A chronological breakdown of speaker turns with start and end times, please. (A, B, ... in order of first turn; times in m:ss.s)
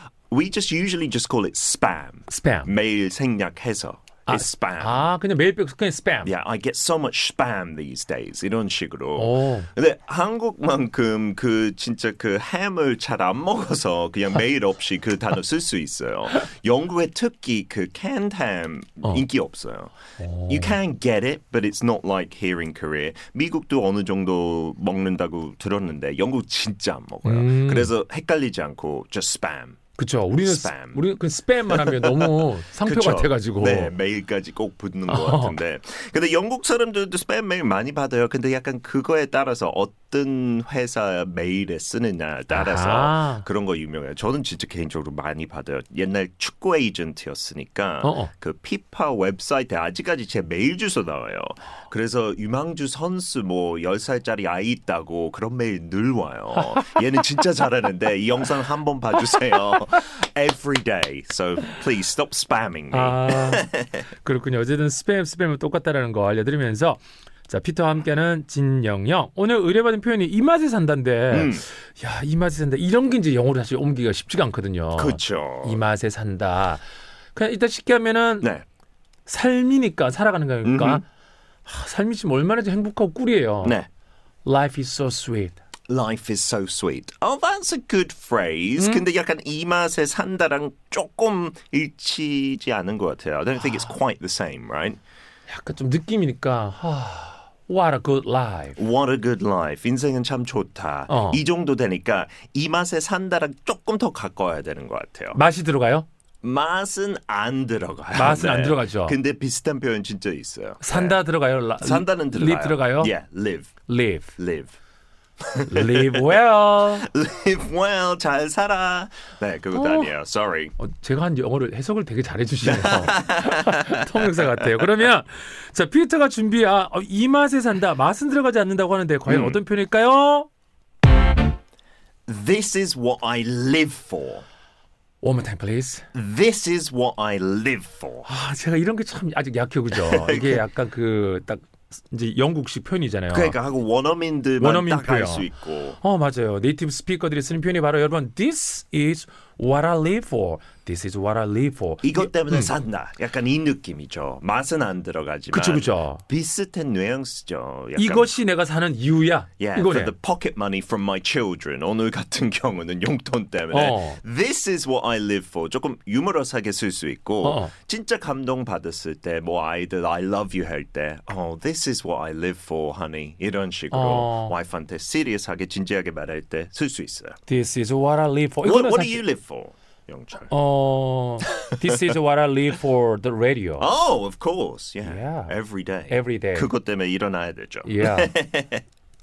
0:00.3-0:05.0 A
0:02.3-0:02.7 B
0:04.3-0:06.3 B
0:06.2-0:20.0 A
0:09.2-0:09.7 B
0:20.2-0:20.8 B
0:20.5-0:29.8 A
0:27.2-0:27.9 B
0:30.0-0:33.9 B
0:30.4-0:31.0 A
0:31.7-1:04.0 A
0:35.1-0:35.6 B
0:42.5-0:43.4 B
0:48.0-0:48.3 B
1:02.9-1:16.8 B
1:11.3-1:11.6 A
1:15.0-1:15.8 A
1:17.3-1:18.5 B
1:19.3-1:21.0 B
1:20.6-1:21.0 A
1:21.6-1:23.8 B
1:24.4-1:25.6 B
1:25.9-1:35.0 A
1:28.8-1:29.0 B
1:35.5-1:38.8 B
1:38.8-1:45.4 A
1:41.1-1:41.4 B
1:45.3-1:46.0 B
1:46.4-1:51.2 A
1:48.1-1:49.2 B
1:50.8-1:53.1 B
1:51.8-1:53.8 A
1:53.9-1:54.3 B
1:54.4-1:54.7 A
1:55.5-2:00.7 A
1:55.7-1:57.1 B
1:59.7-2:00.1 B
2:00.8-2:10.5 B
2:02.6-2:04.5 A
2:09.3-2:09.6 A
2:12.3-2:14.4 A
2:15.2-2:16.0 B
2:16.1-2:18.3 A
2:18.2-2:23.6 B
2:20.0-2:20.6 A
2:23.3-2:26.0 A
2:24.6-2:25.5 B
2:26.0-2:32.7 B
2:32.0-2:38.4 A
2:35.5-2:36.2 B
2:38.0-2:40.1 B
2:39.6-2:57.4 A
2:43.7-2:44.2 B
2:47.4-2:47.7 B
2:53.9-2:54.5 B
2:57.5-2:59.2 B
2:58.6-3:00.5 A
3:00.5-3:03.9 B
3:03.8-3:08.8 A
3:05.0-3:05.5 B
3:06.1-3:06.7 B
3:07.8-3:08.3 B